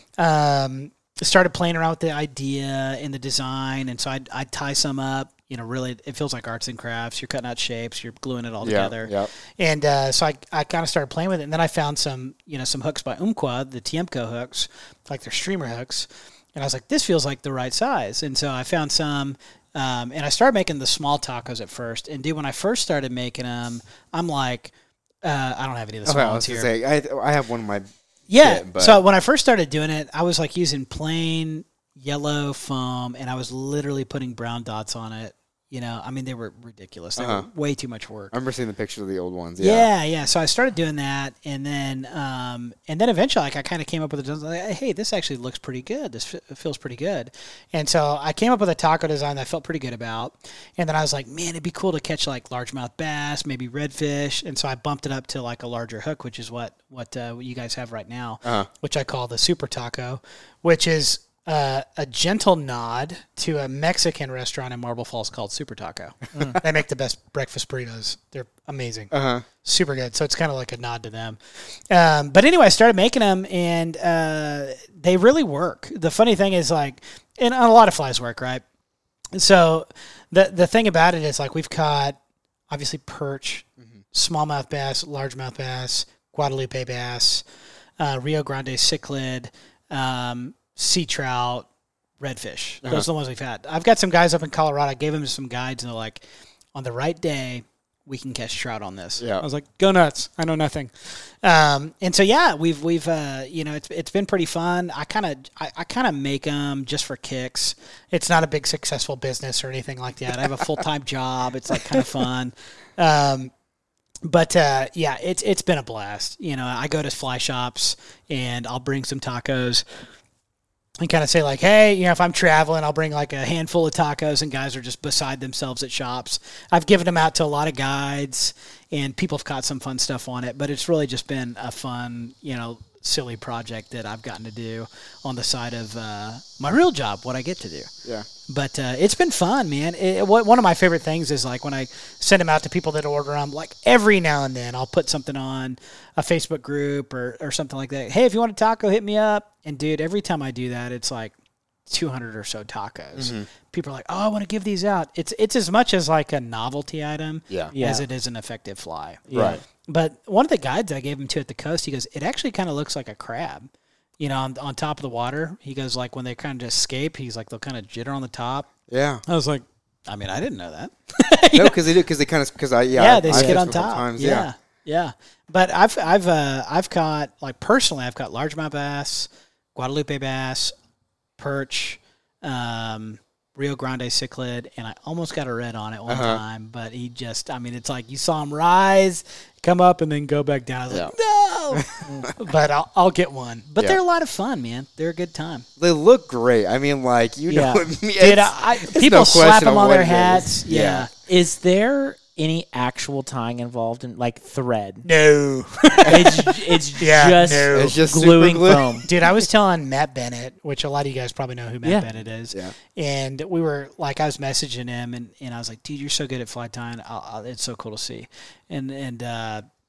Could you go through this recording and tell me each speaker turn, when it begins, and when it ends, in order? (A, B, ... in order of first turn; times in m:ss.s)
0:00.2-0:24.7 A
0:08.6-0:09.3 B
0:25.2-0:26.7 A
0:26.1-0:27.9 B
0:28.3-0:38.3 A
0:28.4-0:29.0 B
0:37.2-0:37.5 B
0:38.3-0:39.9 B
0:39.6-1:09.1 A
1:09.1-1:09.4 B
1:09.6-1:11.4 A
1:11.9-1:18.6 A
1:19.3-1:22.2 A
1:22.7-1:27.4 A
1:28.0-1:31.7 A
1:32.2-1:36.2 A
1:36.8-1:53.5 A
1:39.2-1:39.4 B
1:54.2-1:59.8 A
2:01.0-2:17.9 A
2:18.5-2:31.3 A
2:31.9-2:43.7 A
2:33.2-2:33.5 B
2:37.7-2:38.0 C
2:39.3-2:39.6 C
2:39.3-2:39.6 B
2:44.2-2:48.7 A
2:48.9-2:49.2 B
2:49.3-2:51.9 A
2:51.5-2:54.5 B
2:53.0-3:00.7 A
2:53.3-2:53.6 C
3:01.4-3:15.7 A
3:06.1-3:06.4 B
3:11.7-3:12.3 B
3:15.8-3:21.1 B
3:17.5-3:17.8 C
3:18.2-3:21.1 A
3:21.3-3:25.1 C
3:25.0-3:28.0 A
3:26.1-3:29.1 C
3:27.6-3:29.1 B
3:29.0-3:39.6 A